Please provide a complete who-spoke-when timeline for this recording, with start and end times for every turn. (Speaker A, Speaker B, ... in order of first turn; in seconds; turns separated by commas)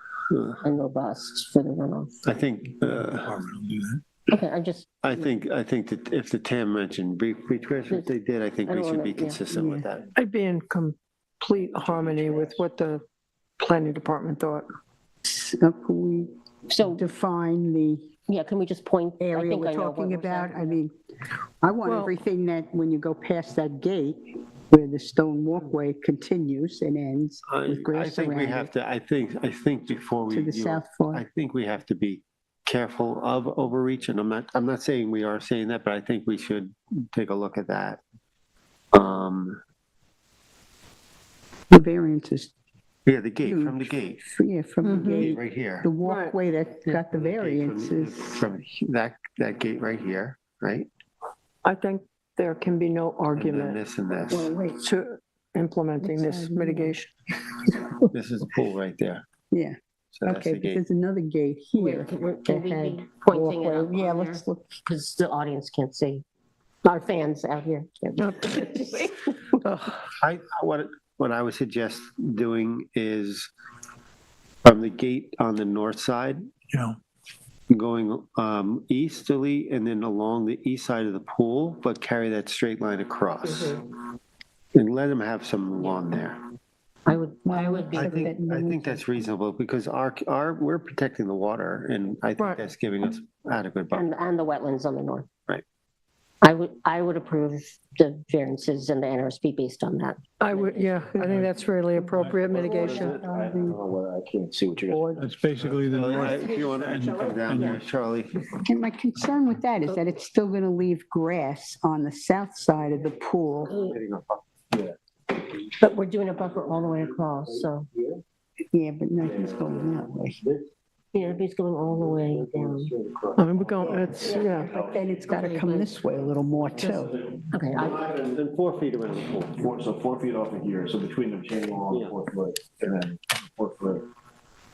Speaker A: 0.3-0.6, Speaker B: 0.6-2.2, Speaker A: 2.2-3.4, Speaker C: 3.0-4.0, Speaker B: 4.3-5.3, Speaker A: 5.0-10.1, Speaker B: 8.7-9.4, Speaker D: 9.5-9.8, Speaker E: 10.2-13.0, Speaker E: 13.6-14.7, Speaker D: 15.3-16.3, Speaker B: 16.7-17.0, Speaker D: 16.8-18.1, Speaker B: 18.3-20.8, Speaker D: 19.2-20.9, Speaker D: 21.6-28.7, Speaker E: 21.9-22.1, Speaker A: 27.5-38.0, Speaker D: 30.3-31.2, Speaker A: 38.9-39.6, Speaker D: 41.7-42.5, Speaker A: 43.1-44.2, Speaker D: 43.5-48.4, Speaker E: 44.8-45.3, Speaker A: 45.1-45.9, Speaker E: 46.0-46.4, Speaker A: 47.1-50.9, Speaker E: 51.6-53.8, Speaker A: 53.4-54.5, Speaker D: 54.3-54.8, Speaker E: 54.8-57.1, Speaker D: 56.0-57.0, Speaker A: 58.1-59.2, Speaker D: 59.5-64.8, Speaker A: 60.1-60.8, Speaker B: 61.8-66.2, Speaker B: 66.8-69.1, Speaker E: 68.2-68.6, Speaker E: 69.6-70.0, Speaker A: 70.2-73.5, Speaker A: 74.6-76.4, Speaker C: 76.7-77.0, Speaker A: 77.7-83.8, Speaker A: 84.7-86.4, Speaker B: 85.8-86.1, Speaker B: 87.1-88.3, Speaker D: 87.5-89.0, Speaker A: 87.9-94.1, Speaker E: 92.4-92.6, Speaker B: 93.9-95.3, Speaker B: 96.4-101.0, Speaker E: 100.4-103.2, Speaker C: 101.2-101.6, Speaker C: 102.1-102.5, Speaker F: 102.5-105.8, Speaker D: 102.6-103.8, Speaker C: 104.9-107.8, Speaker A: 105.9-108.5, Speaker B: 106.8-107.8, Speaker D: 108.7-113.7, Speaker A: 113.7-114.5, Speaker B: 113.7-114.0, Speaker B: 115.8-117.9, Speaker D: 118.7-120.4, Speaker F: 119.2-120.7, Speaker B: 121.1-122.9, Speaker F: 122.3-125.5, Speaker E: 123.4-124.8, Speaker D: 124.7-127.2, Speaker B: 124.8-125.9, Speaker B: 127.5-128.1, Speaker A: 127.8-129.6, Speaker F: 129.5-134.1, Speaker A: 131.9-132.2